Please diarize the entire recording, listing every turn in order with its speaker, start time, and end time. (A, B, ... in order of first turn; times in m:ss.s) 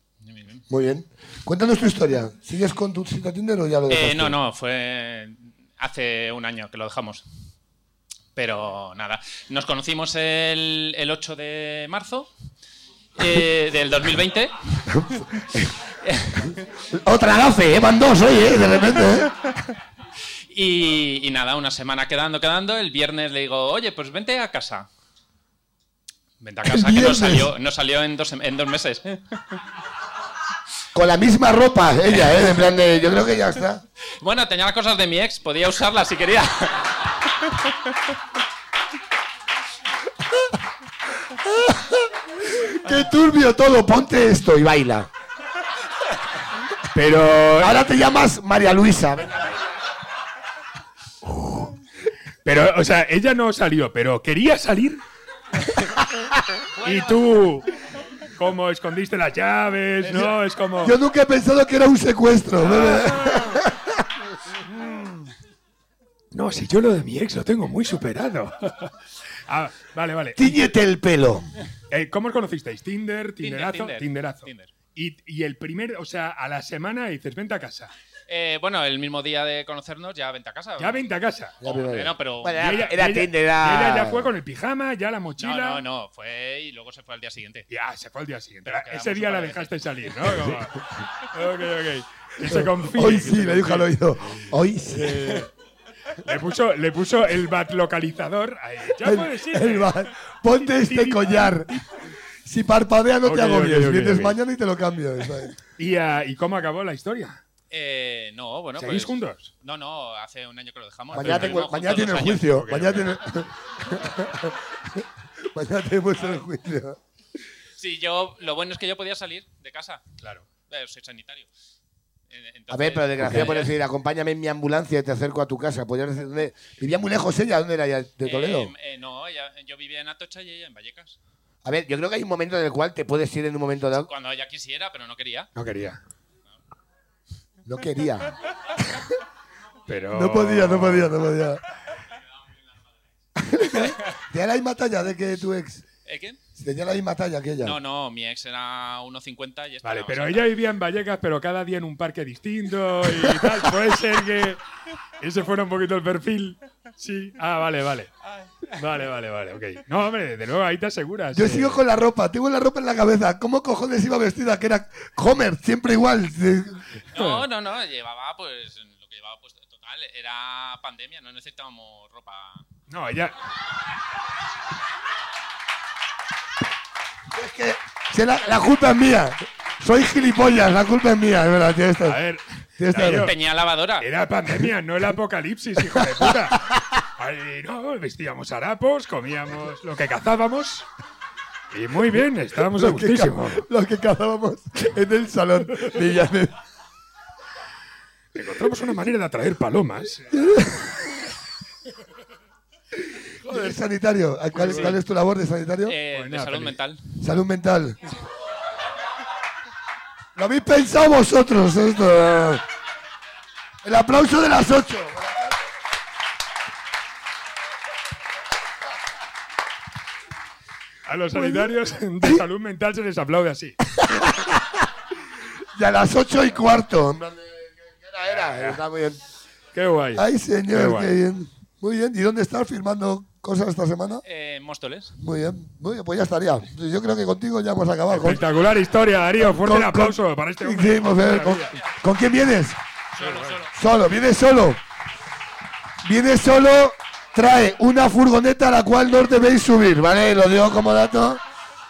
0:00.2-0:00.6 A
0:00.7-0:04.4 B
0:03.9-0:07.2 A
0:08.4-0:12.3 A
0:13.2-0:14.5 A
0:14.9-0:15.7 B
0:16.1-0:16.4 A
0:16.9-0:19.3 B
0:20.5-0:24.9 A
0:26.4-0:29.6 A
0:26.7-0:27.5 B
0:31.0-0:33.8 B
0:34.2-0:36.9 A
0:41.4-0:45.1 B
0:46.9-0:47.8 C
0:47.6-0:49.5 B
0:52.4-0:55.0 C
0:56.8-0:57.7 C
0:58.3-1:01.0 C
1:00.8-1:03.9 B
1:02.6-1:03.6 C
1:04.8-1:05.1 C
1:06.3-1:08.9 C
1:09.5-1:10.6 C
1:10.4-1:11.5 B
1:11.9-1:17.9 C
1:13.4-1:14.7 A
1:18.3-1:21.0 A
1:20.8-1:21.6 C
1:21.6-1:24.3 B
1:21.6-1:23.0 A
1:22.5-1:25.8 C
1:25.4-1:27.7 A
1:27.7-1:35.5 C
1:28.6-1:30.3 A
1:32.5-1:35.5 B
1:36.2-1:41.8 C
1:39.0-1:41.7 B
1:42.5-1:45.5 B
1:43.2-1:44.4 C
1:45.8-1:47.4 C
1:47.7-1:52.6 A
1:48.8-1:49.5 C
1:51.1-1:54.7 B
1:51.1-1:51.6 C
1:52.4-1:53.1 C
1:55.5-1:57.0 B
1:57.8-2:00.0 A
2:00.6-2:01.5 A
2:02.3-2:03.7 A
2:02.7-2:08.7 B
2:08.2-2:11.2 A
2:11.6-2:14.1 B
2:14.1-2:15.5 A
2:15.6-2:16.0 C
2:17.7-2:18.3 B
2:19.9-2:21.1 C
2:20.1-2:21.6 B
2:23.4-2:25.8 B
2:26.1-2:26.4 A
2:26.6-2:27.8 B
2:27.6-2:30.5 A
2:29.8-2:34.6 C
2:35.2-2:38.1 C
2:38.7-2:41.8 C
2:41.3-2:46.8 B
2:47.2-2:52.6 A
2:47.2-2:47.4 C
2:52.9-2:53.3 C
2:57.3-3:02.2 B
3:02.0-3:03.3 C
3:02.8-3:03.3 B
3:03.0-3:04.1 A
3:04.0-3:10.9 C
3:11.7-3:13.7 C
3:12.8-3:16.6 B
3:18.4-3:20.3 C
3:20.3-3:21.0 B
3:23.4-3:26.0 B
3:24.5-3:25.0 C
3:25.9-3:27.0 A
3:26.1-3:26.8 C
3:27.2-3:28.0 B
3:30.4-3:32.6 B
3:33.8-3:35.6 B
3:41.1-3:43.8 C
3:41.3-3:42.4 B
3:44.0-3:44.8 B
3:45.8-3:49.2 B
3:48.4-3:48.8 C
3:49.7-3:51.1 C
3:50.2-3:54.2 B
3:54.2-3:55.1 A
3:55.2-3:58.4 B
3:58.1-4:01.8 C
3:59.4-4:02.8 B
4:03.2-4:03.7 A
4:03.7-4:04.8 B
4:06.0-4:11.4 B